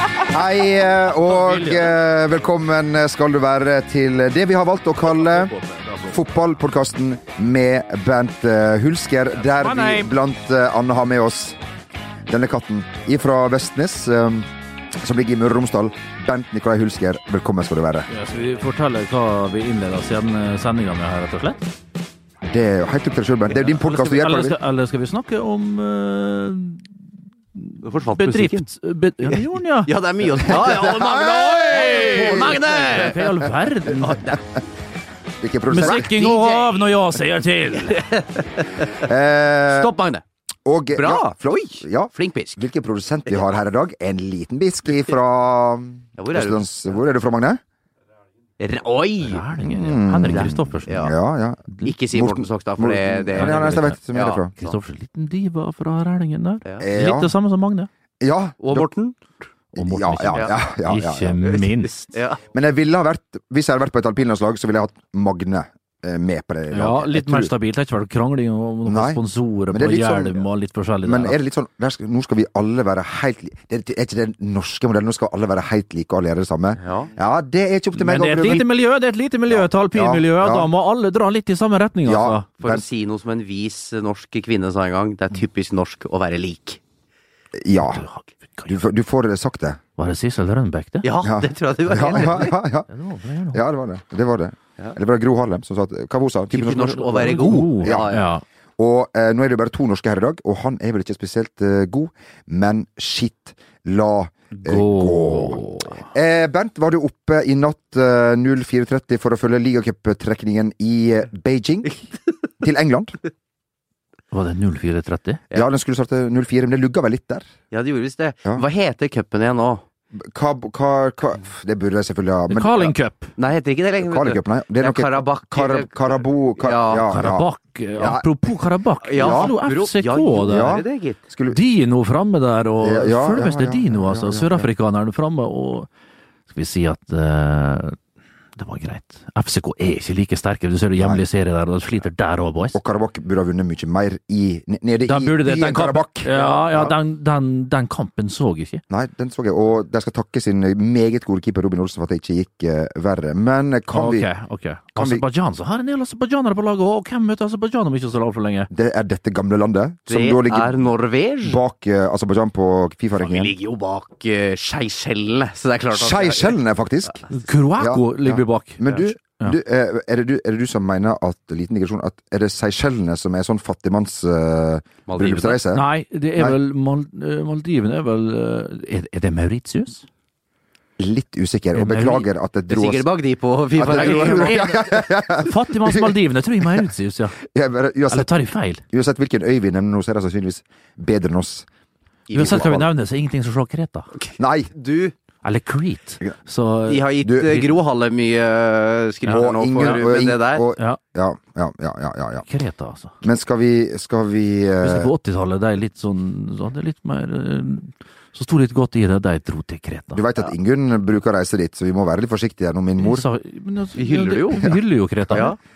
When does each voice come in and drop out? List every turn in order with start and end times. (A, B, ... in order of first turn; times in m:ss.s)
0:00.3-0:05.5 A
0:01.2-0:01.9 B
0:05.6-0:06.2 B
0:06.1-0:11.6 A
0:09.4-0:10.1 B
0:12.3-0:14.5 A
0:15.0-0:18.1 A
0:18.1-0:21.7 B
0:22.4-0:24.6 A
0:23.5-0:26.9 B
0:27.6-0:29.9 B
0:27.8-0:28.7 C
0:29.2-0:33.2 C
0:30.6-0:33.2 A
0:31.7-0:34.4 B
0:35.4-0:36.1 A
0:35.7-0:38.1 B
0:35.8-0:36.9 C
0:37.8-0:39.1 C
0:39.0-0:39.9 A
0:39.7-0:40.2 C
0:40.6-0:47.6 A
0:40.9-0:42.6 C
0:46.2-0:47.0 C
0:48.6-0:49.5 C
0:49.2-0:51.1 B
0:49.6-0:54.5 A
0:50.3-0:51.1 C
0:51.8-0:54.8 C
0:53.4-0:54.0 B
0:54.6-0:57.9 B
0:56.8-0:57.3 A
0:58.2-0:58.9 A
0:58.6-0:59.2 C
0:59.8-1:01.4 A
0:59.8-1:02.1 B
1:01.5-1:02.4 C
1:02.5-1:07.5 A
1:06.7-1:11.4 B
1:08.8-1:10.4 A
1:11.0-1:18.7 A
1:16.8-1:17.1 C
1:18.0-1:22.5 B
1:19.5-1:20.7 A
1:22.0-1:22.8 A
1:22.6-1:26.8 C
1:27.6-1:28.0 A
1:27.9-1:28.8 B
1:28.7-1:29.8 A
1:30.0-1:31.1 B
1:31.0-1:32.6 C
1:31.2-1:32.9 A
1:32.1-1:33.6 B
1:33.5-1:38.1 A
1:36.5-1:38.3 C
1:37.0-1:38.4 B
1:38.8-1:52.1 A
1:44.5-1:46.0 B
1:52.6-1:53.2 A
1:54.3-1:55.4 B
1:55.5-1:57.5 A
1:57.7-1:59.8 C
2:00.3-2:03.0 A
2:02.5-2:03.3 B
2:03.4-2:07.1 C
2:04.0-2:08.3 A
2:07.1-2:10.8 B
2:09.0-2:11.2 C
2:09.2-2:09.5 A
2:10.4-2:11.6 A
2:11.5-2:15.9 B
2:12.8-2:14.7 A
2:16.5-2:18.0 B
2:18.6-2:22.8 B
2:21.0-2:21.2 A
2:22.7-2:26.9 A
2:25.0-2:28.8 B
2:26.4-2:26.6 C
2:28.9-2:34.3 A
2:33.9-2:38.7 B
2:35.0-2:35.2 A
2:38.7-2:40.9 A
2:40.1-2:41.6 C
2:41.4-2:43.5 A
2:43.2-2:46.6 C
2:45.9-2:47.2 A
2:47.3-2:49.6 B
2:47.8-2:55.8 A
2:55.1-2:55.6 C
2:55.7-3:00.1 B
3:01.0-3:03.1 A
3:01.8-3:02.3 B
3:02.7-3:04.8 C
3:03.8-3:06.9 A
3:03.8-3:07.4 B
3:07.4-3:11.7 A
3:08.1-3:08.8 B
3:12.3-3:12.7 C
3:12.3-3:12.9 A
3:12.3-3:14.1 B
3:14.2-3:15.2 C
3:14.4-3:14.7 A
3:15.4-3:17.7 B
3:16.9-3:20.6 C
3:17.2-3:17.6 A
3:19.3-3:22.5 A
3:22.5-3:23.2 B
3:23.2-3:25.1 A
3:24.8-3:30.2 B
3:30.1-3:33.3 A
3:33.0-3:35.6 B
3:34.0-3:34.7 C
3:35.3-3:35.6 C